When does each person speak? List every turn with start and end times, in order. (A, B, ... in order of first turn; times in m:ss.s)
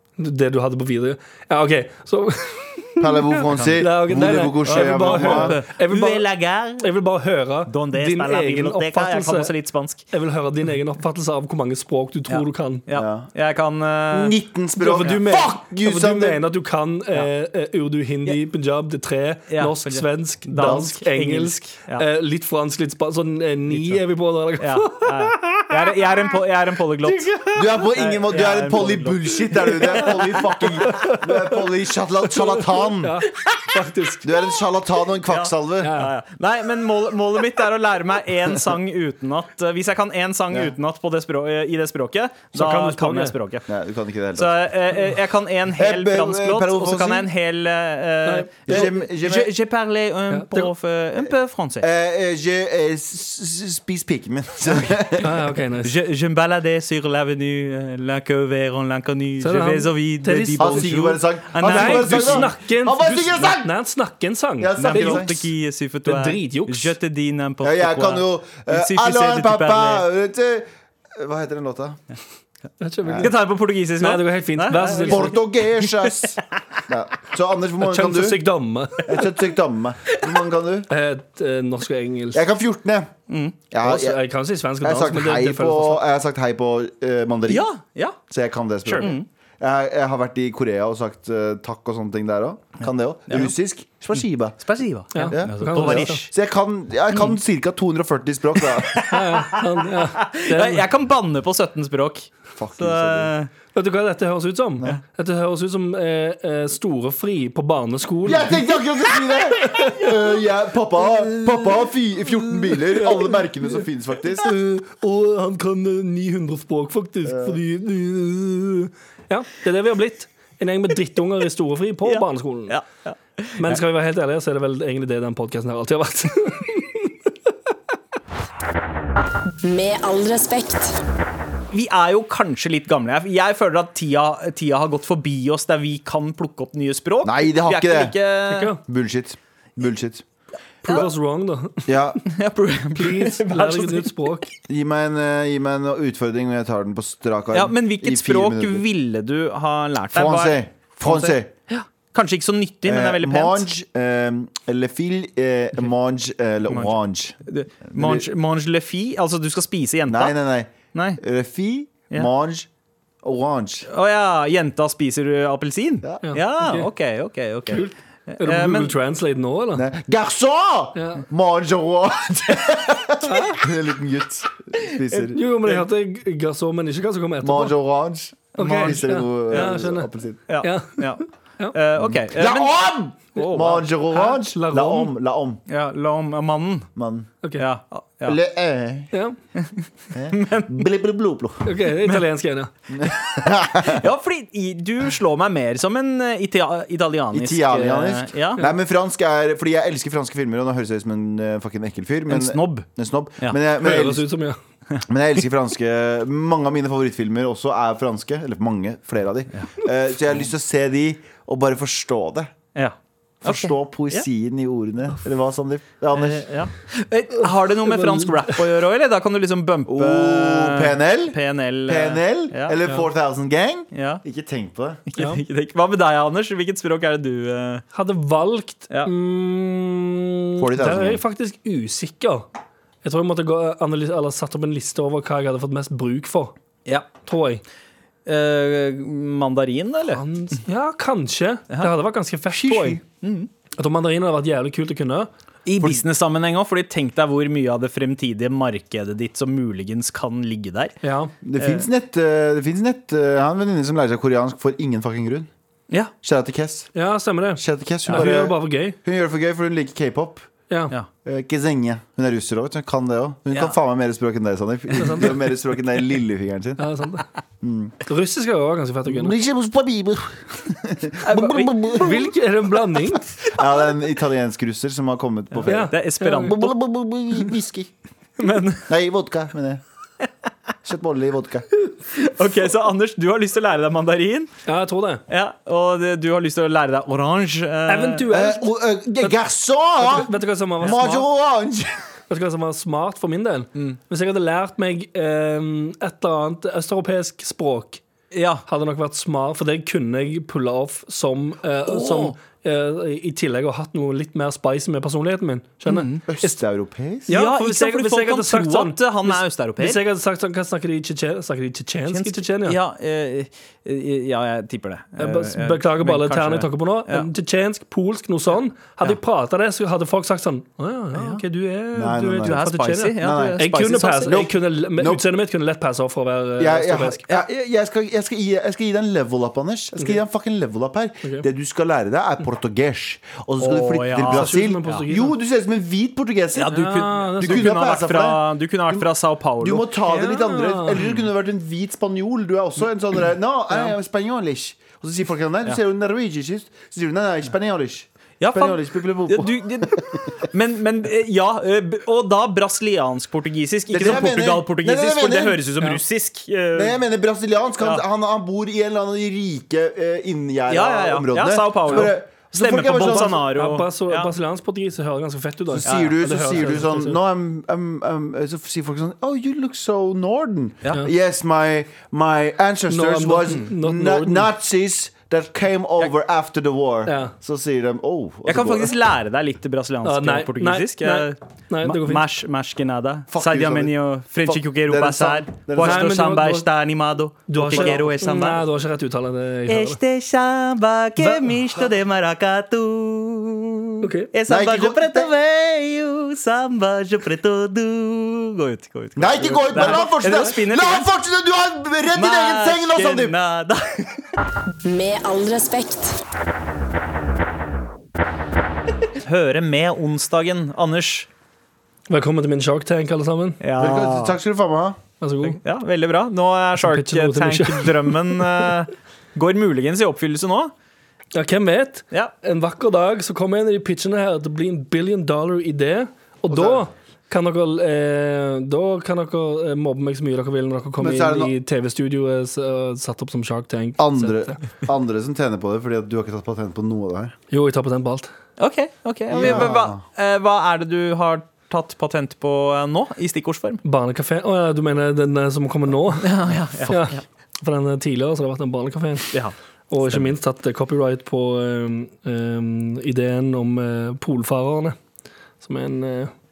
0:00.2-0:06.3 A
0:03.0-0:05.5 B
0:03.5-0:06.9 C
0:06.8-0:09.5 A
0:07.7-0:10.0 C
0:10.1-0:12.8 A
0:12.3-0:14.3 C
0:12.9-0:13.3 B
0:14.1-0:16.4 B
0:14.8-0:26.1 A
0:14.9-0:15.2 C
0:19.5-0:22.0 C
0:20.6-0:20.8 B
0:23.7-0:24.0 C
0:24.6-0:27.4 C
0:27.0-0:27.7 A
0:27.5-0:33.2 B
0:27.9-0:30.1 C
0:29.6-0:31.6 A
0:32.2-0:34.3 A
0:34.2-0:36.0 B
0:35.2-0:43.7 C
0:35.8-0:36.1 A
0:42.5-0:43.3 A
0:43.7-0:44.6 B
0:44.3-0:51.9 C
0:45.8-0:47.3 B
0:48.2-0:48.9 A
0:48.7-0:49.5 B
0:50.3-0:50.7 A
0:51.2-0:55.3 B
0:55.2-0:55.9 A
0:55.8-1:02.5 C
0:59.4-1:00.9 A
1:00.6-1:03.7 B
1:01.6-1:05.3 A
1:04.6-1:05.5 B
1:04.8-1:10.0 C
1:06.0-1:06.9 A
1:07.6-1:12.0 B
1:12.8-1:13.4 A
1:13.0-1:13.3 B
1:13.2-1:16.4 C
1:14.0-1:15.3 A
1:15.0-1:18.4 B
1:17.8-1:19.1 A
1:19.0-1:20.9 B
1:20.9-1:22.4 A
1:22.3-1:23.1 B
1:23.3-1:23.6 C
1:23.7-1:24.2 B
1:23.8-1:26.0 A
1:24.8-1:27.7 B
1:27.5-1:28.2 C
1:28.3-1:34.6 B
1:28.8-1:29.2 C
1:34.6-1:36.3 C
1:35.1-1:36.2 A
1:35.3-1:39.2 B
1:38.8-1:43.5 C
1:39.1-1:40.8 A
1:42.6-1:43.3 B
1:43.7-1:50.1 A
1:48.2-1:54.6 B
1:52.7-1:53.8 A
1:54.4-2:02.8 A
1:57.2-1:57.6 B
2:02.0-2:03.8 C
2:03.6-2:07.1 A
2:09.6-2:11.0 D
2:11.7-2:18.7 C
2:17.2-2:18.2 B
2:18.5-2:18.8 A
2:18.8-2:20.2 B
2:20.8-2:21.8 A
2:20.8-2:21.1 C
2:21.8-2:22.2 B
2:22.2-2:24.1 C
2:23.0-2:24.5 A
2:24.7-2:28.8 B
2:27.5-2:33.7 C
2:30.1-2:31.5 B
2:32.8-2:37.4 B
2:36.7-2:40.3 C
2:37.9-2:38.3 B
2:40.1-2:42.7 B
2:40.9-2:41.2 C
2:43.2-2:43.9 B
2:43.9-2:49.0 C
2:46.2-2:46.9 A
2:47.7-2:49.9 A
2:49.7-2:55.4 B
2:50.9-2:51.2 A
2:53.3-2:53.5 A
2:54.8-2:55.8 C
2:55.2-2:57.7 A
2:57.4-3:00.4 B
2:58.6-3:00.1 A
2:58.6-2:59.8 C
3:00.5-3:03.8 C
3:00.6-3:01.8 A
3:02.0-3:05.6 B
3:04.1-3:05.1 A
3:05.7-3:06.9 C
3:07.0-3:07.3 B
3:07.6-3:08.4 C
3:08.2-3:09.1 B
3:09.1-3:09.4 A
3:09.5-3:10.9 C
3:10.1-3:11.7 B
3:11.6-3:12.7 A
3:12.9-3:14.0 B
3:13.0-3:18.6 C
3:17.3-3:24.2 B
3:22.3-3:22.9 C
3:23.8-3:24.6 A
3:25.0-3:32.5 B
3:32.7-3:34.2 C
3:33.4-3:36.4 B
3:36.1-3:42.8 C
3:37.4-3:38.6 A
3:39.9-3:45.0 B
3:43.9-3:44.2 C
3:45.1-3:47.8 C
3:45.2-3:45.4 A
3:47.9-3:52.5 A
3:50.6-3:51.2 B
3:53.0-3:56.5 A
3:57.2-3:57.6 A
3:58.2-4:00.2 C
4:00.1-4:03.0 A
4:02.5-4:03.0 B
4:03.2-4:03.5 C
4:03.8-4:05.3 A
4:05.6-4:11.0 C
4:11.0-4:11.3 A
4:11.4-4:15.5 B
4:11.6-4:11.8 C
4:16.2-4:16.9 B
4:16.9-4:19.0 A
4:17.6-4:20.5 B
4:20.7-4:20.9 A
4:21.2-4:26.8 B
4:23.5-4:23.8 C
4:25.0-4:25.4 A
4:26.8-4:27.2 A
4:27.6-4:27.9 B
4:28.0-4:29.3 A
4:29.0-4:32.2 B
4:31.2-4:32.2 C
4:31.9-4:33.3 A
4:33.5-4:37.9 B
4:35.5-4:36.8 C
4:35.6-4:36.5 A
4:38.4-4:38.9 C
4:38.9-4:39.8 B
4:40.8-4:41.7 B
4:42.1-4:44.5 C
4:44.7-4:45.2 A
4:45.3-4:48.2 C
4:47.9-4:48.7 A
4:48.3-4:50.3 B
4:50.0-4:51.2 A
4:50.8-4:51.2 C
4:50.8-4:52.0 B
4:52.3-4:58.0 A
4:58.3-4:58.6 C
4:58.6-5:06.5 A
5:01.8-5:02.3 C
5:05.9-5:06.2 C
5:06.3-5:07.3 B
5:07.3-5:12.8 A
5:07.3-5:10.0 C
5:12.1-5:17.3 C
5:15.2-5:27.2 A
5:21.1-5:21.4 C
5:21.9-5:22.6 B
5:22.4-5:24.5 C
5:23.2-5:23.6 B
5:24.3-5:25.2 B
5:26.6-5:36.8 B
5:33.6-5:35.0 C
5:34.2-5:35.3 A
5:36.5-5:39.8 C
5:36.7-5:37.8 A
5:37.4-5:39.0 B
5:39.6-5:50.3 B
5:40.1-5:41.0 A
5:41.0-5:41.2 C
5:48.4-5:57.0 C
5:53.9-5:55.6 B
5:56.7-6:03.4 B
6:00.7-6:04.3 C
6:03.2-6:07.2 A
6:05.7-6:18.9 B
6:05.8-6:06.2 C
6:12.9-6:14.5 A
6:17.0-6:17.3 A
6:18.4-6:28.6 C
6:20.0-6:22.2 A
6:23.3-6:23.9 B
6:24.4-6:26.1 B
6:25.8-6:26.6 A
6:27.5-6:30.0 A
6:27.7-6:27.9 B
6:29.7-6:41.1 C
6:34.0-6:34.3 A
6:34.5-6:35.3 B
6:39.2-6:43.3 B
6:39.7-6:40.0 A
6:42.1-6:44.3 C
6:44.8-6:46.2 D
6:49.2-6:51.3 C
6:52.1-6:53.6 A
6:53.6-6:54.4 C
6:53.8-6:55.0 B
6:55.2-6:55.6 A
6:55.4-7:00.7 C
6:56.8-6:58.6 A
7:01.3-7:14.6 A
7:06.5-7:06.9 B
7:11.0-7:11.5 B
7:14.0-7:17.3 B
7:17.5-7:18.3 A
7:18.6-7:23.8 C
7:19.3-7:20.0 B
7:23.8-7:26.3 A
7:26.2-7:27.2 C
7:26.9-7:29.3 A
7:29.9-7:35.0 A
7:35.6-7:36.3 A